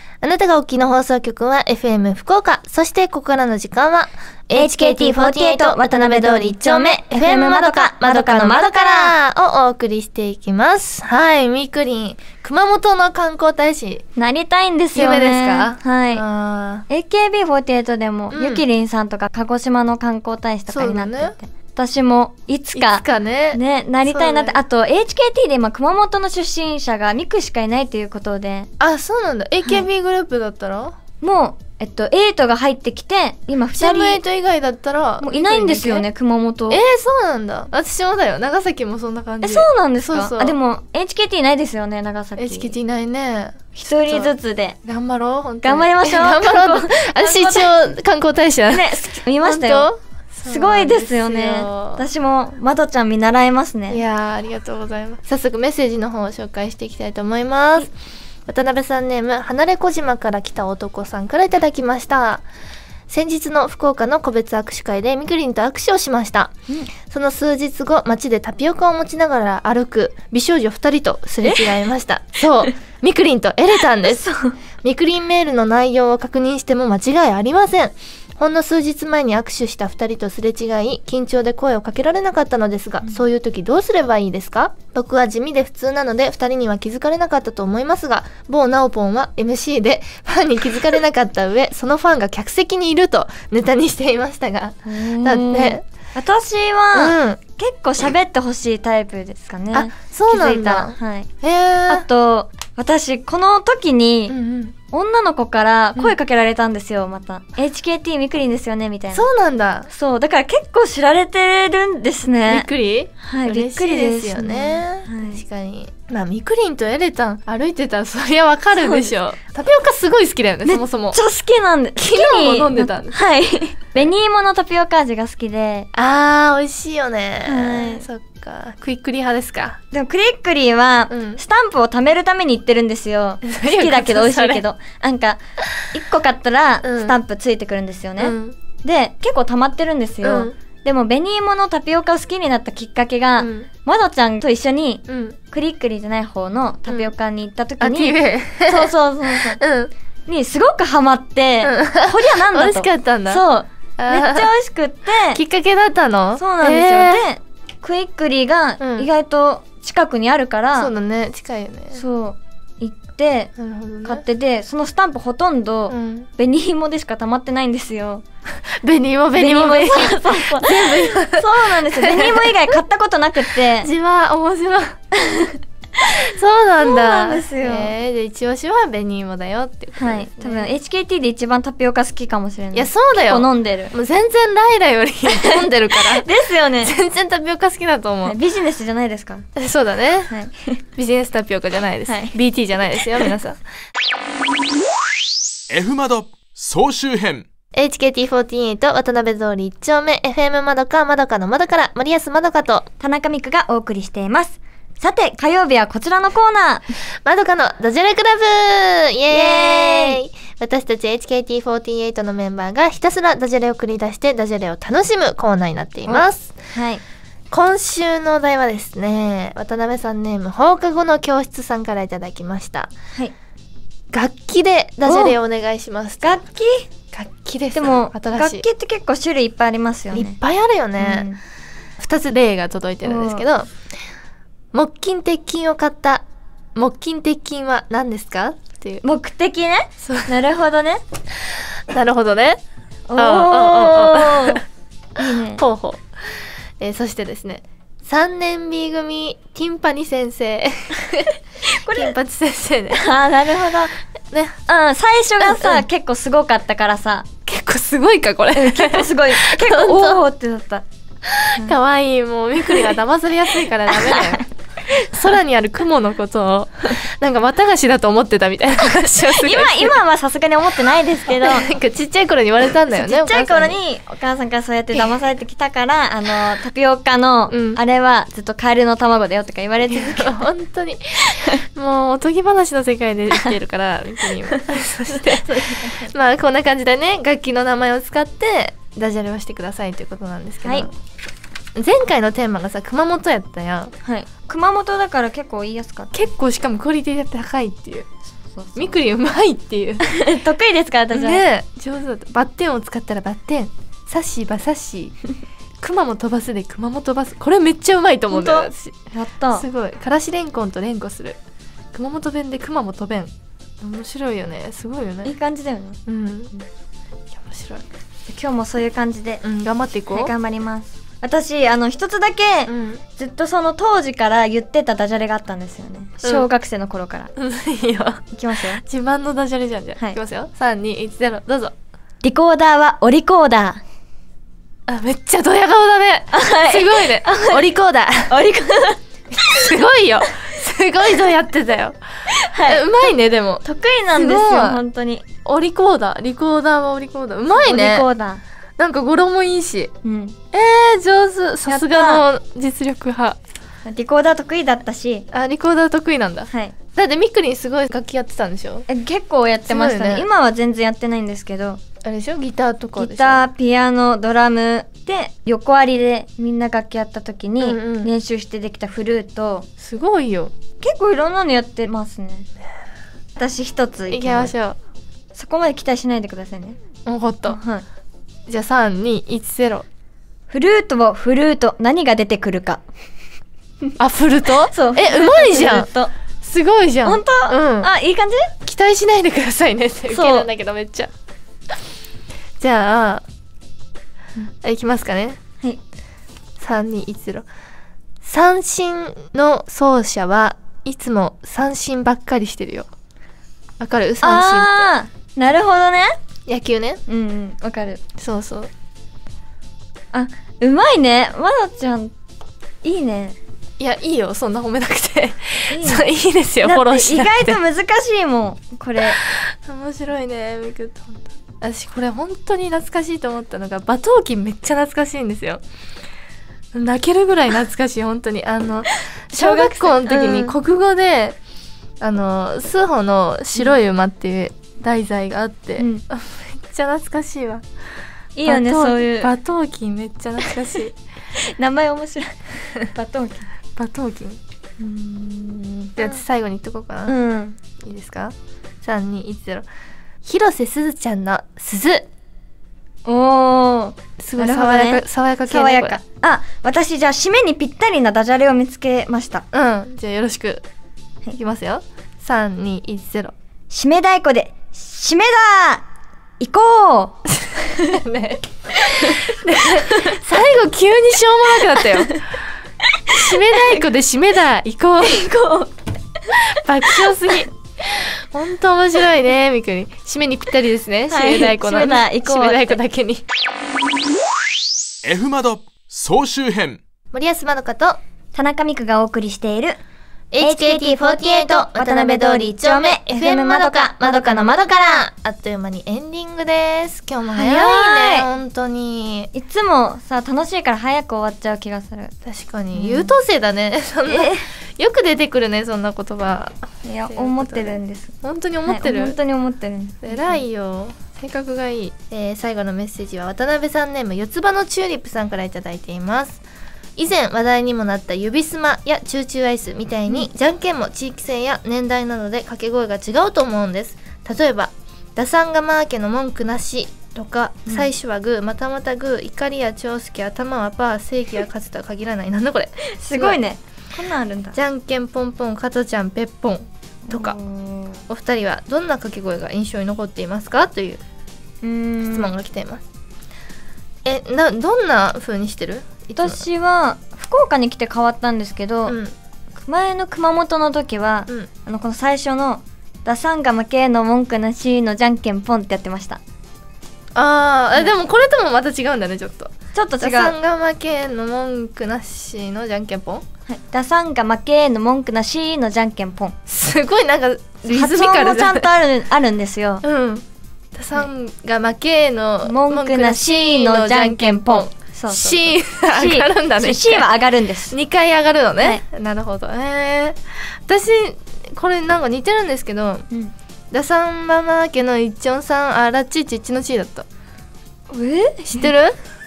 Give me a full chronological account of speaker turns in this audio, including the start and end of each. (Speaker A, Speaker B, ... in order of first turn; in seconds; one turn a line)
Speaker A: 0.2-14.0
Speaker B: 4.6-9.1
Speaker B: 14.2-16.2
Speaker A: 14.9-16.9
Speaker B: 16.9-28.7
Speaker A: 18.3-18.6
Speaker A: 20.7-21.4
Speaker A: 22.7-24.6
Speaker A: 28.8-31.0
Speaker B: 31.2-34.2
Speaker A: 33.8-36.1
Speaker B: 35.2-36.8
Speaker A: 36.7-40.5
Speaker B: 39.4-42.7
Speaker A: 42.4-44.3
Speaker B: 43.8-44.8
Speaker A: 44.8-48.9
Speaker B: 45.6-47.7
Speaker B: 48.7-49.9
Speaker A: 49.4-52.0
Speaker B: 50.5-54.0
Speaker A: 53.9-57.9
Speaker A: 58.5-62.5
Speaker A: 63.1-66.5
Speaker A: 67.1-74.2
Speaker B: 71.4-71.8
Speaker B: 74.1-74.6
Speaker A: 74.8-95.8
Speaker B: 94.9-101.3
Speaker A: 96.9-97.4
Speaker A: 99.7-102.1
Speaker B: 101.9-104.4
Speaker A: 104.3-104.8
Speaker B: 104.9-109.2
Speaker A: 109.1-109.9
Speaker B: 109.9-112.7
Speaker A: 112.5-121.2
Speaker B: 113.2-115.4
Speaker B: 118.8-119.0
Speaker B: 120.7-125.9
Speaker A: 122.0-123.2
Speaker A: 125.9-129.8
Speaker B: 127.5-128.1
Speaker B: 129.9-135.4
Speaker A: 131.1-131.4
Speaker A: 133.5-134.6
Speaker B: 135.9-149.6
Speaker A: 136.8-137.2
Speaker A: 138.2-138.6
Speaker A: 140.2-140.6
Speaker A: 143.4-143.7
Speaker A: 145.1-145.4
Speaker A: 147.8-149.9
Speaker B: 150.3-155.4
Speaker A: 151.6-153.4
Speaker A: 154.0-154.5
Speaker A: 155.3-157.2
Speaker B: 156.4-160.9
Speaker A: 158.8-159.1
Speaker A: 160.8-162.0
Speaker B: 161.9-163.5
Speaker A: 163.6-164.2
Speaker B: 164.1-168.2
Speaker A: 165.9-166.3
Speaker A: 168.7-172.8
Speaker B: 169.4-173.9
Speaker A: 173.8-175.0
Speaker B: 175.1-176.1
Speaker A: 176.0-180.7
Speaker B: 176.8-177.9
Speaker B: 180.0-183.9
Speaker A: 182.7-186.3
Speaker B: 185.3-186.9
Speaker A: 186.8-188.4
Speaker B: 188.2-189.5
Speaker A: 189.6-190.3
Speaker B: 190.3-190.8
Speaker A: 191.0-193.6
Speaker B: 192.1-192.3
Speaker C: 195.7-197.5
Speaker A: 197.7-202.9
Speaker B: 203.0-206.9
Speaker A: 207.2-216.6
Speaker B: 209.3-210.2
Speaker B: 216.1-217.0
Speaker A: 217.5-222.9
Speaker A: 224.1-226.3
Speaker B: 225.1-225.4
Speaker B: 226.2-226.9
Speaker A: 227.1-228.7
Speaker B: 227.7-230.4
Speaker A: 230.1-231.3
Speaker B: 231.0-231.4
Speaker A: 232.0-233.7
Speaker B: 233.0-233.4
Speaker A: 234.7-239.0
Speaker B: 239.0-241.0
Speaker A: 240.0-240.3
Speaker A: 241.5-242.6
Speaker B: 243.1-244.6
Speaker A: 243.2-244.6
Speaker B: 245.2-245.6
Speaker A: 245.2-251.3
Speaker B: 251.7-252.1
Speaker A: 251.9-253.0
Speaker B: 253.0-254.0
Speaker A: 254.3-254.6
Speaker B: 254.7-257.3
Speaker A: 255.4-255.9
Speaker A: 257.5-260.2
Speaker B: 258.6-260.8
Speaker A: 261.2-269.9
Speaker B: 264.1-264.4
Speaker B: 269.3-271.7
Speaker A: 271.3-273.8
Speaker B: 272.9-280.5
Speaker A: 277.5-277.8
Speaker A: 279.9-290.9
Speaker B: 285.1-286.1
Speaker A: 291.8-293.9
Speaker B: 294.0-296.1
Speaker A: 296.1-298.1
Speaker B: 298.5-298.9
Speaker A: 298.8-300.0
Speaker B: 300.0-301.4
Speaker A: 301.1-305.2
Speaker A: 305.8-309.0
Speaker B: 308.3-309.7
Speaker A: 309.6-311.4
Speaker A: 311.9-315.3
Speaker B: 315.2-316.0
Speaker A: 316.1-316.5
Speaker A: 317.4-317.9
Speaker B: 318.3-319.4
Speaker A: 319.4-320.3
Speaker B: 320.1-327.3
Speaker A: 322.7-323.0
Speaker A: 326.2-326.5
Speaker A: 327.4-331.8
Speaker B: 328.3-328.8
Speaker B: 332.2-333.8
Speaker A: 334.9-338.3
Speaker B: 336.3-337.6
Speaker B: 338.3-339.0
Speaker A: 339.4-342.0
Speaker B: 342.3-343.0
Speaker A: 342.6-343.6
Speaker B: 343.6-345.2
Speaker A: 344.1-344.8
Speaker A: 345.4-348.1
Speaker B: 347.5-348.4
Speaker A: 348.8-349.9
Speaker B: 350.0-350.4
Speaker A: 350.5-353.4
Speaker B: 351.7-352.2
Speaker B: 353.9-355.2
Speaker A: 355.3-358.9
Speaker B: 356.5-356.8
Speaker B: 358.9-361.8
Speaker A: 359.7-360.3
Speaker A: 362.0-363.4
Speaker B: 363.0-369.7
Speaker A: 367.6-368.1
Speaker A: 369.8-370.5
Speaker B: 370.8-372.5
Speaker B: 373.4-374.5
Speaker A: 374.1-374.8
Speaker B: 375.4-376.8
Speaker A: 377.1-377.6
Speaker B: 377.5-377.9
Speaker A: 378.5-379.9
Speaker B: 380.5-382.8
Speaker A: 384.0-385.9
Speaker B: 384.7-386.1
Speaker A: 386.4-387.9
Speaker B: 387.1-388.5
Speaker A: 388.6-391.1
Speaker B: 390.1-390.5
Speaker A: 392.6-393.2
Speaker A: 394.6-395.4
Speaker A: 396.6-397.5
Speaker A: 398.2-402.9
Speaker A: 403.8-404.9
Speaker B: 404.2-406.2
Speaker A: 406.5-407.0
Speaker B: 407.1-408.0
Speaker A: 408.2-408.7
Speaker B: 410.1-412.1
Speaker B: 412.8-413.4
Speaker A: 413.8-417.6
Speaker B: 415.7-416.0
Speaker B: 416.6-419.2
Speaker A: 419.2-425.6
Speaker A: 426.7-431.4
Speaker B: 429.3-430.6
Speaker A: 432.0-437.6
Speaker B: 435.8-436.0
Speaker B: 438.4-439.3
Speaker A: 438.5-441.0
Speaker B: 441.4-443.5
Speaker A: 443.8-444.4
Speaker B: 444.8-446.2
Speaker A: 446.0-447.1
Speaker B: 447.1-447.6
Speaker A: 447.8-449.7
Speaker A: 450.2-452.1
Speaker B: 453.1-459.4
Speaker A: 454.2-456.0
Speaker A: 459.5-460.6
Speaker A: 461.3-463.3
Speaker B: 463.7-465.9
Speaker B: 466.4-468.0
Speaker A: 467.8-472.2
Speaker B: 468.8-470.2
Speaker B: 473.1-473.8
Speaker A: 473.1-475.3
Speaker B: 475.0-475.7
Speaker A: 476.5-483.2
Speaker B: 481.1-482.8
Speaker C: 485.1-486.8
Speaker A: 487.1-488.0
Speaker B: 488.3-489.8
Speaker A: 490.3-499.3
Speaker B: 490.4-495.0
Speaker B: 497.3-498.3
Speaker B: 499.3-502.1
Speaker A: 502.2-506.6
Speaker B: 502.8-503.1
Speaker B: 504.1-504.5
Speaker B: 506.8-508.1
Speaker A: 507.1-509.2
Speaker B: 508.7-510.4
Speaker A: 510.0-516.4
Speaker A: 517.0-533.4
Speaker B: 533.0-534.6
Speaker A: 534.5-537.4
Speaker B: 537.1-538.0
Speaker A: 538.1-541.0
Speaker B: 541.6-542.3
Speaker A: 542.1-542.8
Speaker A: 544.0-546.4
Speaker B: 546.2-549.0
Speaker A: 548.9-549.1
Speaker B: 549.6-556.2
Speaker A: 557.1-563.2
Speaker B: 559.7-560.4
Speaker B: 563.5-566.4
Speaker A: 566.5-568.7
Speaker B: 567.7-569.8
Speaker A: 569.8-577.1
Speaker B: 572.5-577.8
Speaker A: 577.7-583.1
Speaker A: 583.7-587.1
Speaker B: 587.9-588.7
Speaker A: 588.5-589.0